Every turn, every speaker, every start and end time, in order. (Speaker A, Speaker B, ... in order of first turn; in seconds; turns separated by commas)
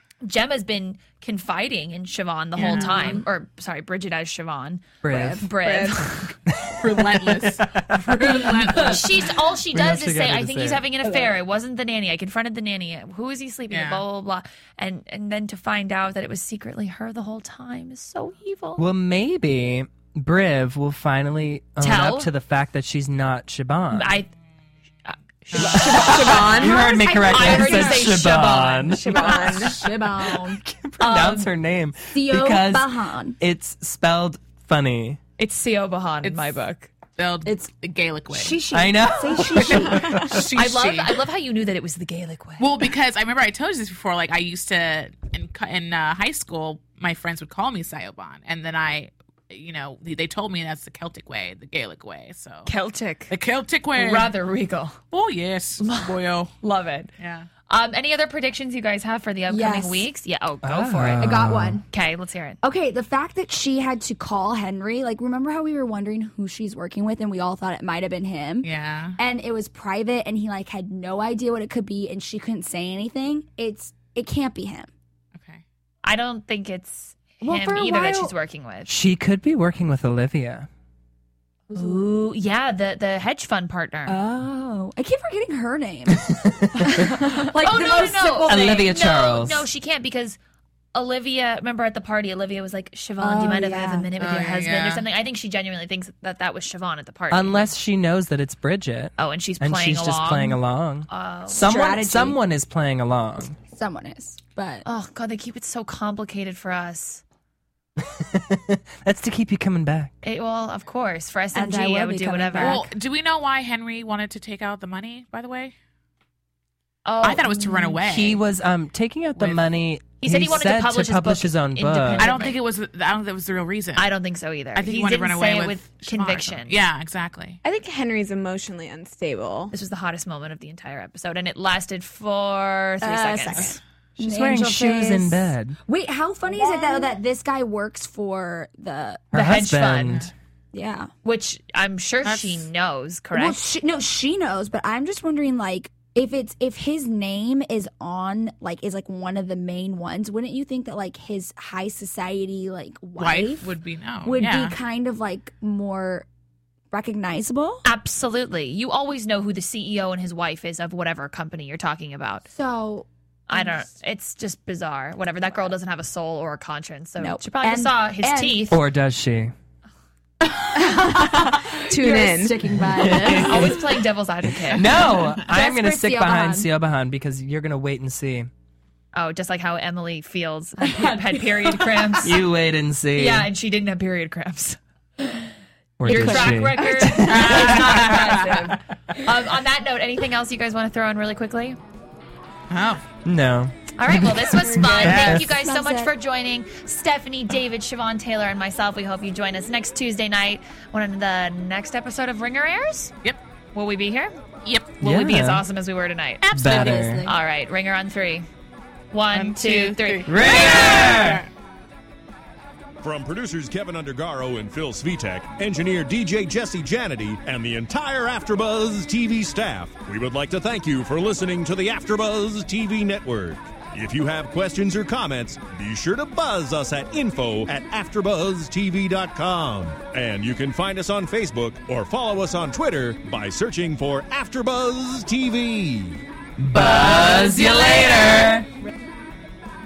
Speaker A: 0.2-6.2, Speaker B: 2.6-3.2, Speaker C: 5.0-5.5, Speaker D: 5.5-6.3, Speaker C: 6.5-8.0, Speaker B: 6.8-9.3, Speaker A: 8.8-18.9, Speaker C: 9.7-10.9, Speaker B: 13.7-14.0, Speaker C: 18.8-24.2, Speaker A: 21.8-22.3, Speaker A: 23.9-24.3, Speaker A: 25.1-29.6, Speaker B: 25.5-25.8, Speaker D: 25.6-27.0, Speaker C: 25.6-29.5, Speaker E: 26.6-28.3, Speaker D: 28.9-29.8, Speaker E: 29.1-30.6, Speaker C: 30.3-35.2, Speaker A: 31.0-31.5, Speaker E: 32.1-33.4, Speaker A: 35.4-36.9, Speaker B: 36.2-36.5, Speaker B: 37.2-38.6, Speaker E: 38.3-40.3, Speaker C: 38.7-40.5, Speaker B: 39.5-41.2, Speaker A: 40.5-42.7, Speaker B: 42.6-52.7, Speaker A: 52.7-53.3, Speaker B: 53.3-54.4, Speaker A: 53.9-55.0, Speaker B: 55.1-56.5, Speaker A: 55.8-57.1, Speaker B: 57.2-57.5, Speaker A: 57.7-62.6, Speaker E: 59.5-60.1, Speaker C: 60.6-61.8, Speaker E: 61.2-61.8, Speaker E: 62.6-74.9, Speaker B: 68.6-69.2, Speaker B: 75.3-75.6, Speaker A: 76.0-78.9, Speaker E: 77.4-78.3, Speaker C: 78.9-80.7, Speaker A: 81.7-84.2, Speaker E: 81.7-82.0, Speaker E: 84.1-88.9, Speaker C: 86.1-87.1, Speaker A: 87.6-90.4, Speaker C: 88.5-89.7, Speaker A: 90.9-97.7, Speaker E: 93.2-94.1, Speaker B: 94.2-95.0, Speaker C: 97.3-103.6, Speaker A: 99.2-101.7, Speaker E: 101.6-102.4, Speaker E: 103.7-104.8, Speaker A: 104.8-107.2, Speaker C: 108.0-110.1, Speaker A: 110.2-112.9, Speaker E: 111.5-112.9, Speaker B: 112.6-115.7, Speaker A: 117.0-118.0, Speaker B: 117.2-118.4, Speaker C: 118.0-122.5, Speaker A: 120.2-122.6, Speaker B: 122.2-124.1, Speaker A: 124.0-126.8, Speaker B: 124.8-127.6, Speaker D: 127.6-129.7, Speaker A: 129.7-133.8, Speaker E: 133.0-139.3, Speaker C: 134.2-135.8, Speaker D: 136.5-137.1, Speaker C: 139.3-140.3, Speaker A: 139.3-140.3, Speaker E: 140.7-141.1, Speaker A: 141.2-143.6, Speaker B: 142.2-142.7, Speaker E: 143.3-156.3, Speaker B: 153.2-154.8, Speaker E: 156.9-157.8, Speaker A: 157.8-162.5, Speaker E: 162.5-163.8, Speaker A: 163.5-168.8, Speaker E: 167.2-168.7, Speaker C: 168.7-169.5, Speaker D: 170.7-173.7, Speaker E: 170.8-173.8, Speaker C: 172.9-173.8, Speaker A: 173.5-174.9, Speaker C: 174.7-178.5, Speaker E: 175.5-176.7, Speaker A: 179.1-182.4, Speaker E: 180.8-182.2, Speaker C: 182.2-183.5, Speaker A: 183.1-184.8, Speaker C: 186.0-187.8, Speaker A: 186.1-191.8, Speaker B: 187.2-188.8, Speaker B: 192.7-193.0, Speaker C: 193.3-195.4, Speaker A: 194.0-203.1, Speaker E: 194.6-196.1, Speaker B: 195.0-195.4, Speaker A: 203.7-204.4, Speaker B: 204.6-204.9, Speaker A: 205.0-208.5, Speaker C: 205.0-205.6, Speaker B: 206.4-207.2, Speaker C: 206.5-207.3, Speaker E: 206.8-207.4, Speaker A: 209.1-210.8, Speaker B: 209.3-211.5, Speaker C: 210.3-211.4, Speaker F: 213.0-236.2, Speaker C: 236.6-238.7, Speaker B: 236.7-238.2